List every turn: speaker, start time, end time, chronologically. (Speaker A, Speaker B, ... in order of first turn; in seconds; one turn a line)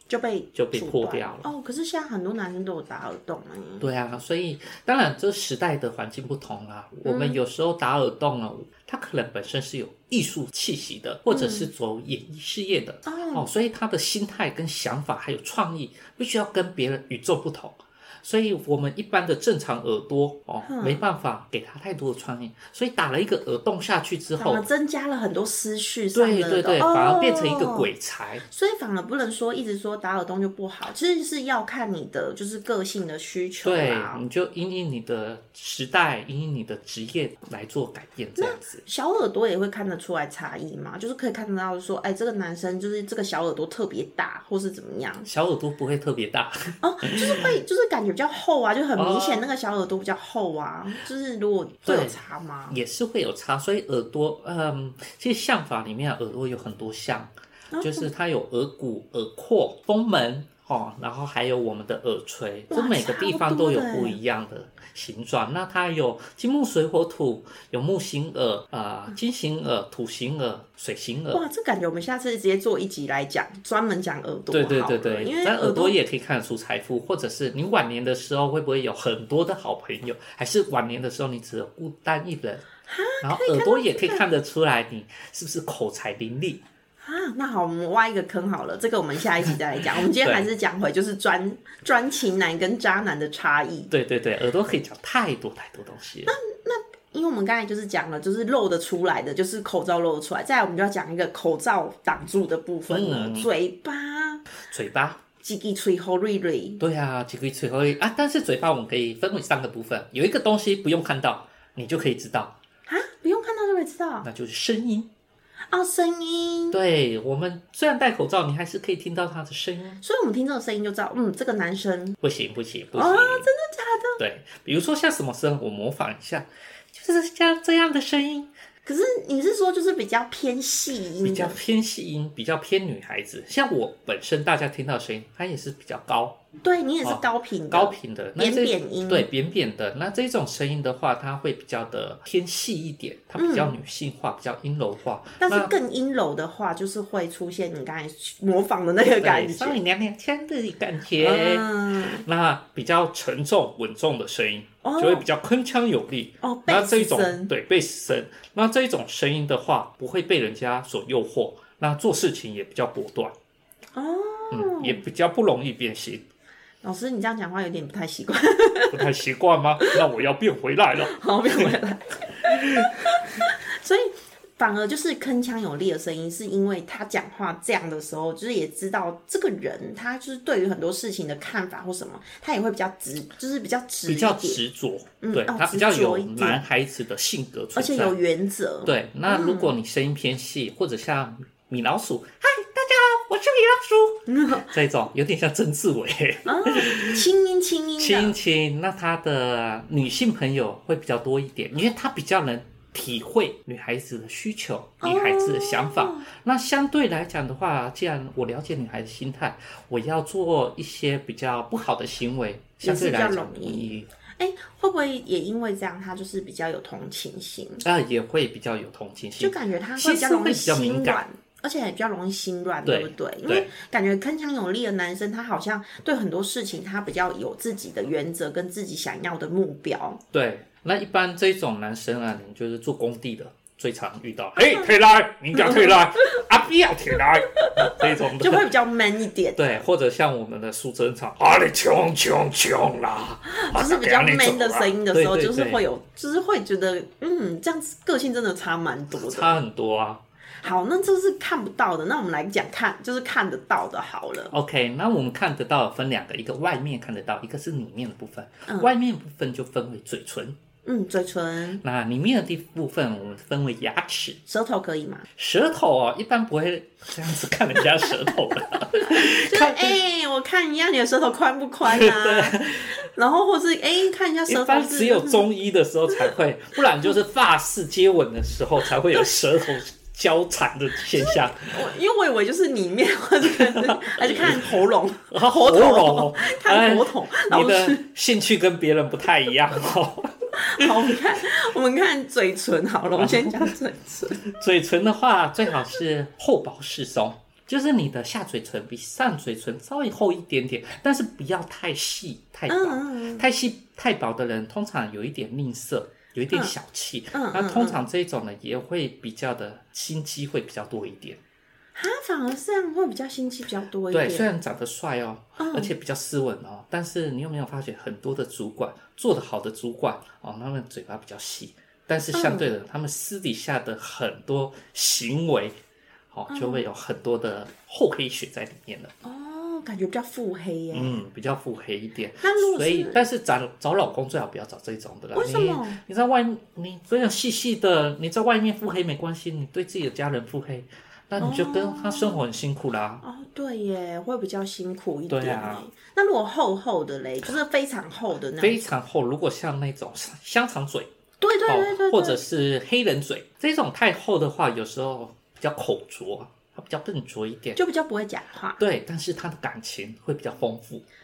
Speaker A: 0.1-3.9
Speaker B: 0.5-1.5
Speaker B: 3.8-24.7
Speaker A: 7.0-7.4
Speaker A: 11.3-11.7
Speaker A: 13.1-13.5
Speaker A: 20.6-21.0
Speaker A: 24.4-27.9
Speaker B: 26.1-28.4
Speaker A: 28.5-34.2
Speaker B: 33.6-38.8
Speaker A: 38.4-45.3
Speaker B: 45.2-47.6
Speaker A: 46.8-52.8
Speaker B: 49.0-49.4
Speaker B: 51.9-52.2
Speaker B: 52.7-71.4
Speaker A: 57.7-58.1
Speaker A: 62.7-64.2
Speaker A: 71.3-76.0
Speaker B: 74.5-82.7
Speaker A: 82.9-84.2
Speaker B: 83.2-86.6
Speaker A: 87.0-93.9
Speaker B: 90.2-90.5
Speaker B: 93.9-96.3
Speaker A: 96.2-104.4
Speaker B: 102.9-103.5
Speaker B: 104.6-105.2
Speaker A: 105.4-106.8
Speaker B: 106.8-112.5
Speaker A: 112.9-114.3
Speaker B: 114.2-115.1
Speaker A: 115.7-116.8
Speaker B: 116.7-120.0
Speaker A: 120.0-122.2
Speaker B: 122.2-123.5
Speaker A: 122.9-124.2
Speaker B: 124.2-128.5
Speaker A: 128.8-131.6
Speaker B: 131.2-136.4
Speaker A: 136.6-139.3
Speaker B: 137.0-145.7
Speaker A: 143.4-143.7
Speaker A: 145.4-149.8
Speaker B: 149.2-163.3
Speaker A: 151.2-152.2
Speaker A: 154.8-155.2
Speaker A: 156.4-157.5
Speaker A: 163.9-165.0
Speaker B: 164.5-166.2
Speaker A: 166.8-169.1
Speaker B: 168.9-171.8
Speaker A: 171.0-184.6
Speaker B: 172.4-172.9
Speaker B: 184.1-188.2
Speaker A: 185.2-186.6
Speaker A: 187.8-189.7
Speaker B: 188.8-197.2
Speaker A: 194.3-194.7
Speaker A: 196.4-198.4
Speaker B: 198.0-214.1
Speaker A: 205.0-206.3
Speaker A: 212.8-217.8
Speaker B: 217.8-221.2
Speaker A: 219.4-230.2
Speaker B: 222.8-223.7
Speaker B: 230.3-238.7
Speaker A: 235.5-236.4
Speaker A: 237.6-239.6
Speaker B: 239.6-245.8
Speaker A: 243.5-249.6
Speaker B: 249.2-250.2
Speaker A: 250.6-254.5
Speaker B: 254.5-260.6
Speaker A: 260.8-261.8
Speaker B: 261.8-264.4
Speaker A: 264.5-265.2
Speaker B: 265.4-270.0
Speaker A: 267.9-268.3
Speaker A: 269.1-275.5
Speaker B: 271.9-273.0
Speaker B: 274.5-281.8
Speaker A: 281.1-288.0
Speaker B: 283.7-284.8
Speaker B: 285.3-291.1
Speaker A: 290.6-294.4
Speaker B: 293.1-293.7
Speaker B: 294.3-311.4
Speaker A: 302.7-303.4
Speaker A: 307.3-308.0
Speaker A: 311.9-314.5
Speaker B: 314.1-325.7
Speaker A: 315.6-315.9
Speaker A: 322.3-322.7
Speaker B: 326.3-329.1
Speaker A: 326.5-326.8
Speaker A: 329.2-331.2
Speaker B: 330.9-343.2
Speaker A: 332.4-333.2
Speaker A: 335.3-336.0
Speaker A: 341.4-342.4
Speaker A: 343.2-348.9
Speaker B: 345.3-345.8
Speaker B: 348.6-351.1
Speaker A: 351.4-352.4
Speaker B: 351.6-357.8
Speaker A: 357.8-358.8
Speaker B: 358.8-361.0